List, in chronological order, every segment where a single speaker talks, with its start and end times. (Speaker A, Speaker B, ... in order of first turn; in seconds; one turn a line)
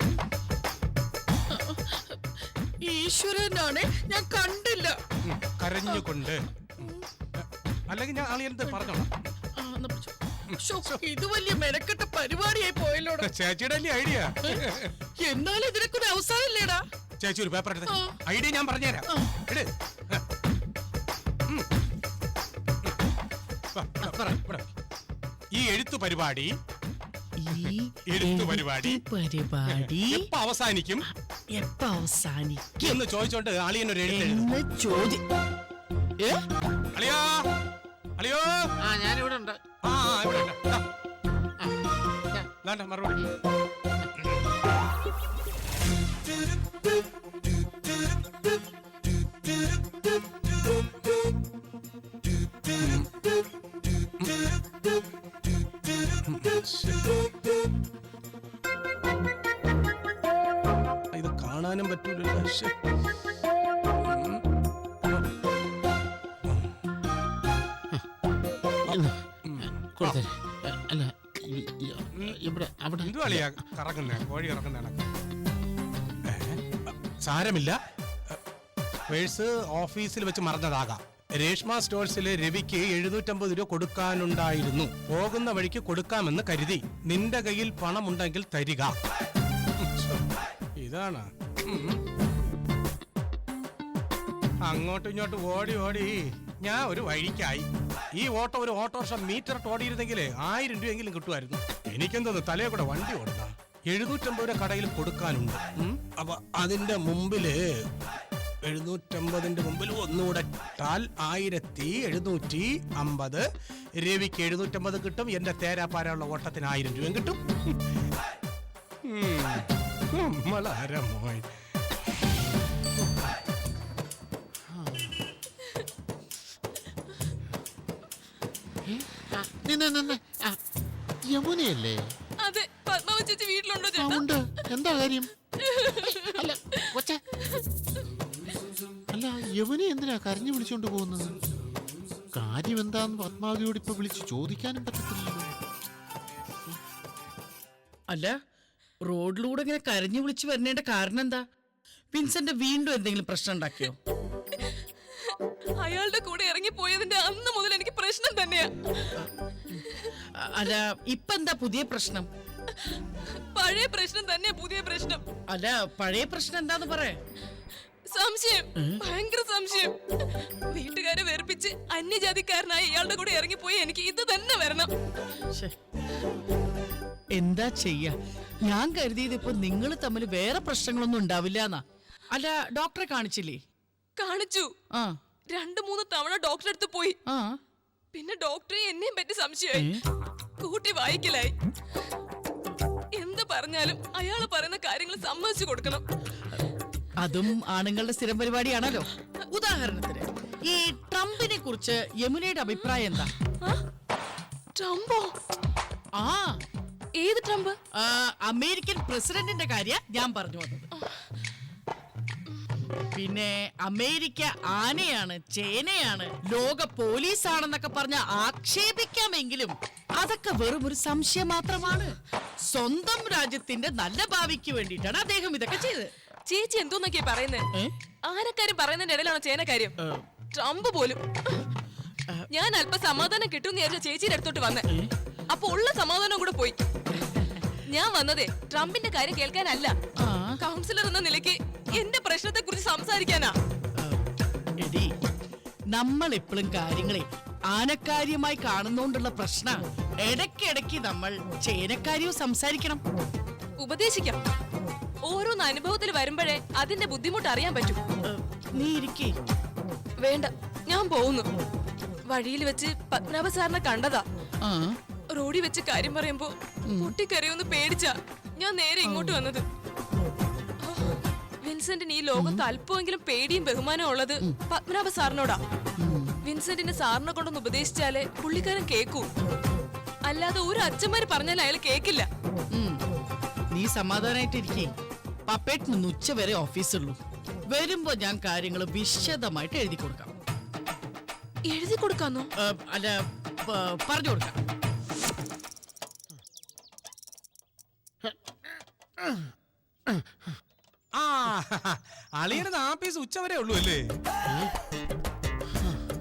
Speaker A: 1.5-2.0
Speaker A: 2.9-5.0
Speaker B: 5.2-6.5
Speaker A: 6.8-7.0
Speaker B: 7.4-9.1
Speaker A: 8.6-8.9
Speaker A: 9.6-13.3
Speaker B: 13.2-14.9
Speaker A: 15.2-16.8
Speaker B: 17.2-20.2
Speaker A: 17.9-18.2
Speaker A: 19.1-19.4
Speaker B: 23.7-24.7
Speaker B: 25.5-26.5
Speaker A: 27.4-30.3
Speaker B: 28.1-28.9
Speaker B: 30.1-31.0
Speaker A: 31.1-33.0
Speaker B: 32.9-34.4
Speaker A: 34.1-35.2
Speaker B: 37.0-37.5
Speaker B: 38.2-38.5
Speaker C: 38.8-39.6
Speaker B: 39.9-40.8
Speaker B: 42.6-43.2
Speaker B: 52.8-53.1
Speaker B: 56.3-57.1
Speaker B: 61.1-62.7
Speaker B: 64.0-64.4
Speaker B: 66.5-66.7
Speaker C: 68.9-73.5
Speaker B: 69.5-70.2
Speaker B: 73.0-75.0
Speaker B: 76.3-77.8
Speaker B: 79.1-89.0
Speaker B: 89.8-90.2
Speaker B: 90.8-92.0
Speaker B: 94.7-107.9
Speaker B: 108.6-113.5
Speaker B: 114.0-117.7
Speaker B: 119.0-121.5
Speaker C: 124.7-125.2
Speaker C: 128.8-130.6
Speaker C: 131.3-132.0
Speaker D: 132.4-134.3
Speaker C: 133.9-135.3
Speaker D: 135.6-136.9
Speaker C: 136.0-137.2
Speaker C: 139.1-141.4
Speaker C: 142.3-145.6
Speaker A: 148.1-148.3
Speaker A: 149.1-151.4
Speaker A: 152.1-154.0
Speaker D: 155.8-159.1
Speaker A: 160.4-162.3
Speaker D: 163.5-165.2
Speaker A: 165.5-167.2
Speaker D: 168.1-169.9
Speaker D: 170.7-174.9
Speaker A: 177.4-178.1
Speaker A: 178.7-183.6
Speaker D: 184.2-184.7
Speaker D: 185.5-187.2
Speaker D: 188.1-189.9
Speaker A: 189.7-190.0
Speaker D: 190.6-191.5
Speaker D: 193.2-196.0
Speaker A: 197.2-203.3
Speaker D: 204.8-205.3
Speaker A: 206.2-206.6
Speaker D: 207.2-207.8
Speaker A: 208.0-210.9
Speaker A: 213.1-222.2
Speaker A: 222.7-226.1
Speaker D: 226.5-227.7
Speaker D: 228.2-229.9
Speaker D: 230.5-231.6
Speaker D: 232.5-234.9
Speaker D: 235.5-236.8
Speaker A: 237.1-237.7
Speaker D: 237.9-239.9
Speaker A: 240.2-240.6
Speaker D: 240.6-243.5
Speaker A: 244.8-245.1
Speaker A: 245.9-253.0
Speaker D: 253.8-254.4
Speaker D: 255.2-258.0
Speaker A: 258.2-259.4
Speaker D: 260.2-261.5
Speaker D: 262.3-264.2
Speaker A: 264.6-264.9
Speaker D: 265.3-269.6
Speaker D: 270.8-275.6
Speaker A: 272.4-272.6
Speaker A: 276.0-276.4
Speaker D: 276.4-279.3
Speaker D: 280.3-282.3
Speaker A: 283.7-284.9
Speaker A: 285.5-287.2
Speaker A: 287.7-290.3
Speaker D: 291.7-292.5
Speaker A: 292.6-294.6
Speaker C: 298.2-299.5
Speaker C: 300.1-300.6
Speaker B: 301.2-304.0
Speaker C: 304.5-304.7
Speaker C: 305.7-306.0